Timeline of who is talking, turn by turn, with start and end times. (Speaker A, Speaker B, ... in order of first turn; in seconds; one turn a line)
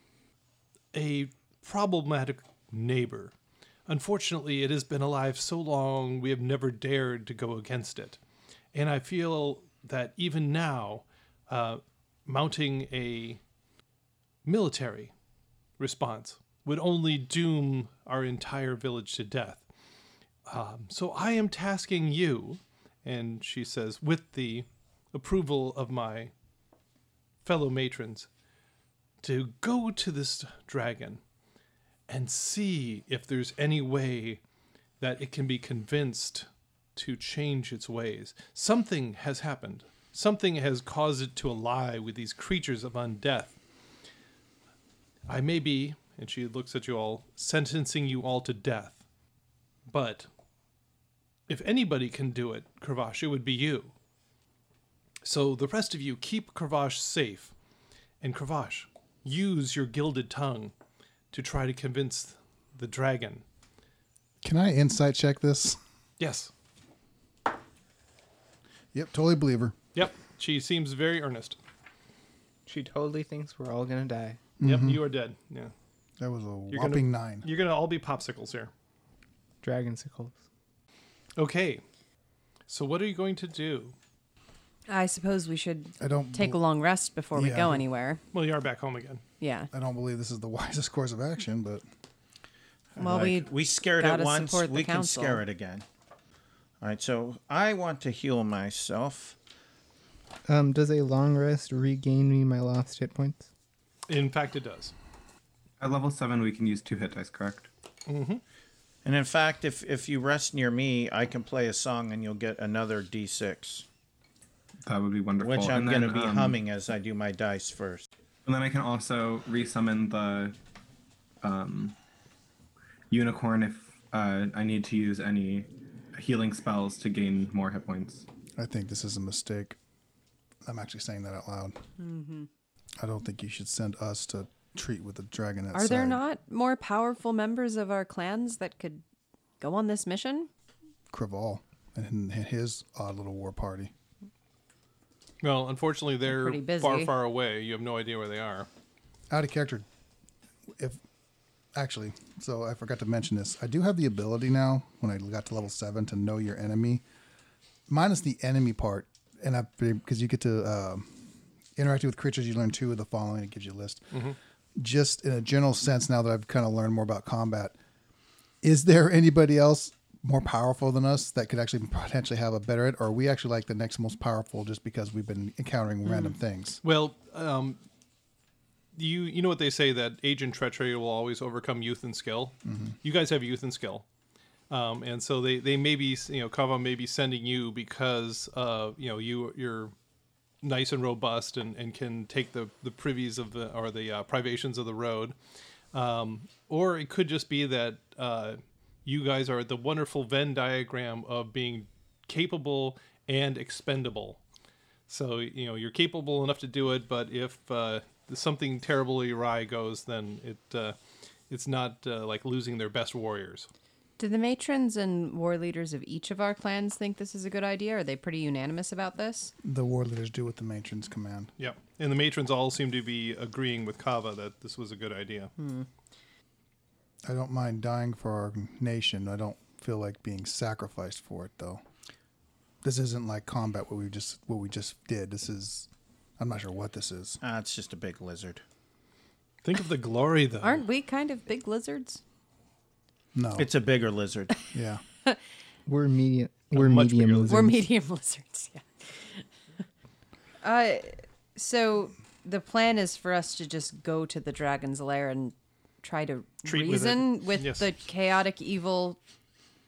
Speaker A: 0.9-3.3
Speaker A: 3.9-8.2
Speaker A: 8.7-13.4
Speaker A: 14.4-15.1
Speaker A: 15.8-19.6
Speaker A: 20.5-26.3
Speaker A: 27.4-28.3
Speaker A: 29.2-31.2
Speaker A: 32.1-34.4
Speaker A: 35.0-43.5
Speaker A: 45.3-49.0
Speaker A: 49.9-50.3
Speaker A: 51.5-53.9
Speaker A: 55.2-57.5
Speaker A: 58.2-60.7
Speaker A: 61.3-63.4
Speaker B: 64.4-65.8
Speaker A: 66.2-66.5
Speaker B: 68.9-69.7
Speaker A: 69.9-71.6
Speaker C: 72.7-74.4
Speaker B: 74.6-75.0
Speaker A: 74.6-75.7
Speaker B: 76.2-77.5
Speaker A: 76.7-78.7
Speaker C: 79.6-80.4
Speaker A: 81.4-81.8
Speaker A: 82.7-83.9
Speaker D: 84.9-88.2
Speaker B: 86.0-86.6
Speaker B: 87.3-87.8
Speaker A: 88.3-89.2
Speaker D: 89.4-89.7
Speaker B: 89.7-91.8
Speaker D: 93.0-95.4
Speaker E: 93.0-95.8
Speaker E: 96.8-99.3
Speaker C: 100.5-103.5
Speaker A: 104.1-104.9
Speaker F: 105.8-107.7
Speaker A: 108.1-108.4
Speaker E: 109.0-113.8
Speaker F: 114.8-116.6
Speaker E: 115.4-118.1
Speaker F: 118.5-120.5
Speaker F: 121.4-122.0
Speaker F: 123.1-128.2
Speaker B: 128.6-129.8
Speaker B: 130.6-131.8
Speaker D: 132.0-132.5
Speaker B: 133.0-136.2
Speaker D: 135.7-139.0
Speaker D: 139.6-140.5
Speaker B: 141.1-143.9
Speaker A: 145.4-148.7
Speaker D: 146.2-147.1
Speaker B: 149.3-149.8
Speaker B: 151.7-157.0
Speaker B: 157.9-161.2
Speaker B: 161.8-164.2
Speaker B: 164.8-167.8
Speaker B: 168.6-176.8
Speaker A: 176.8-177.8
Speaker A: 178.9-184.0
Speaker B: 182.7-183.0
Speaker A: 184.7-189.9
Speaker A: 190.6-195.3
Speaker A: 195.9-204.4
Speaker A: 205.1-210.9
Speaker A: 211.5-213.7
Speaker D: 214.2-219.5
Speaker B: 219.6-221.5
Speaker A: 221.6-225.5
Speaker D: 225.6-225.9
Speaker B: 227.2-231.8
Speaker B: 232.8-237.4
Speaker E: 237.4-238.6
Speaker A: 239.6-240.8
Speaker D: 240.6-242.2
Speaker B: 243.3-243.7
Speaker E: 243.6-244.6
Speaker B: 244.7-245.0
Speaker C: 245.8-247.8
Speaker A: 246.7-247.7
Speaker D: 247.5-249.4
Speaker D: 250.6-259.2
Speaker A: 256.6-257.9